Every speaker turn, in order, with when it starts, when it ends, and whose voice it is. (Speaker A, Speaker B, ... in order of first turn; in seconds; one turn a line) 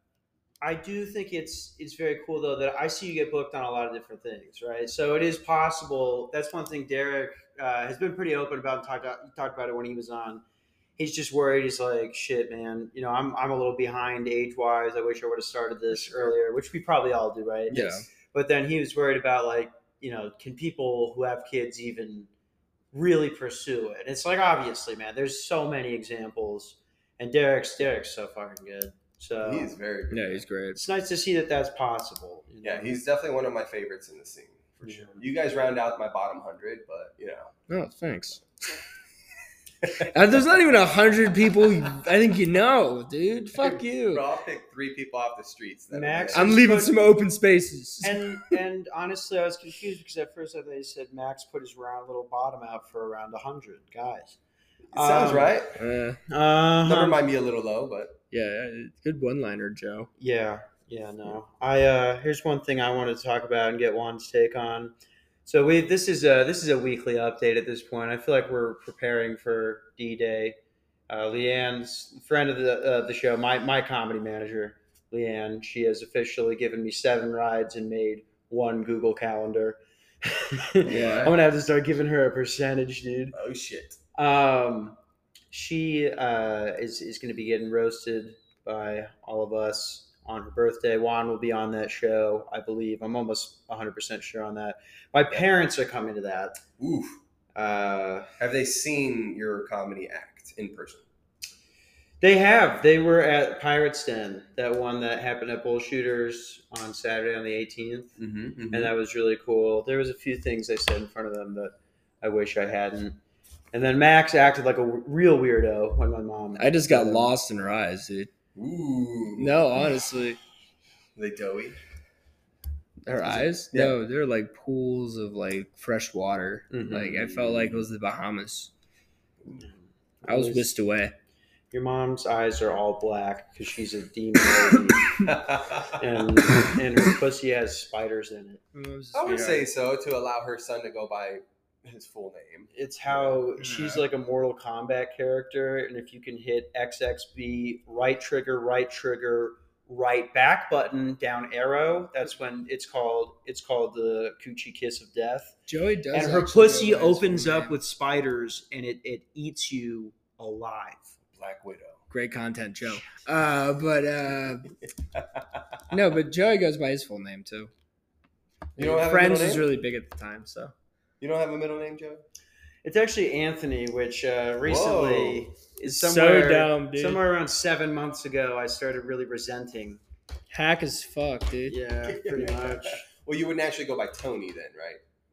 Speaker A: 0.6-10.4
Speaker A: 11.0-22.3
Speaker B: 17.7-18.0
Speaker C: 17.7-18.0
Speaker A: 22.9-29.7
Speaker B: 29.4-30.4
Speaker C: 30.1-30.8
Speaker A: 30.7-33.0
Speaker B: 32.6-37.5
Speaker A: 34.8-35.2
Speaker C: 37.7-38.5
Speaker C: 40.0-44.2
Speaker B: 43.5-46.6
Speaker A: 45.9-47.1
Speaker C: 46.3-48.5
Speaker A: 48.0-54.4
Speaker B: 54.9-55.8
Speaker A: 54.9-55.5
Speaker C: 55.8-56.2
Speaker A: 56.3-57.2
Speaker B: 56.8-58.2
Speaker C: 58.3-60.1
Speaker A: 60.2-70.6
Speaker A: 71.1-83.3
Speaker B: 80.8-81.3
Speaker C: 80.9-81.3
Speaker B: 83.3-84.0
Speaker A: 84.1-85.0
Speaker A: 85.5-96.6
Speaker B: 96.8-97.2
Speaker A: 97.5-98.3
Speaker B: 98.4-101.0
Speaker A: 102.2-108.1
Speaker B: 108.2-108.9
Speaker A: 108.7-113.2
Speaker A: 113.7-117.3
Speaker C: 116.6-118.3
Speaker B: 118.5-119.6
Speaker C: 119.3-120.4
Speaker B: 121.2-121.8
Speaker C: 123.1-128.7
Speaker A: 123.1-123.5
Speaker A: 126.7-127.3
Speaker B: 127.3-127.8
Speaker A: 130.2-130.7
Speaker C: 130.3-131.1
Speaker A: 131.7-135.1
Speaker B: 135.2-136.0
Speaker A: 135.9-138.6
Speaker C: 138.7-139.7
Speaker B: 139.1-143.4
Speaker A: 142.7-155.6
Speaker C: 143.6-144.0
Speaker C: 155.7-157.8
Speaker A: 156.1-161.2
Speaker B: 161.3-162.0
Speaker C: 162.1-164.7
Speaker B: 165.1-165.8
Speaker C: 165.9-167.7
Speaker B: 168.8-169.7
Speaker C: 168.8-170.7
Speaker B: 171.2-172.2
Speaker A: 172.8-180.0
Speaker B: 174.6-175.5
Speaker C: 175.9-177.2
Speaker C: 180.5-181.8
Speaker A: 181.7-183.1
Speaker B: 182.1-185.0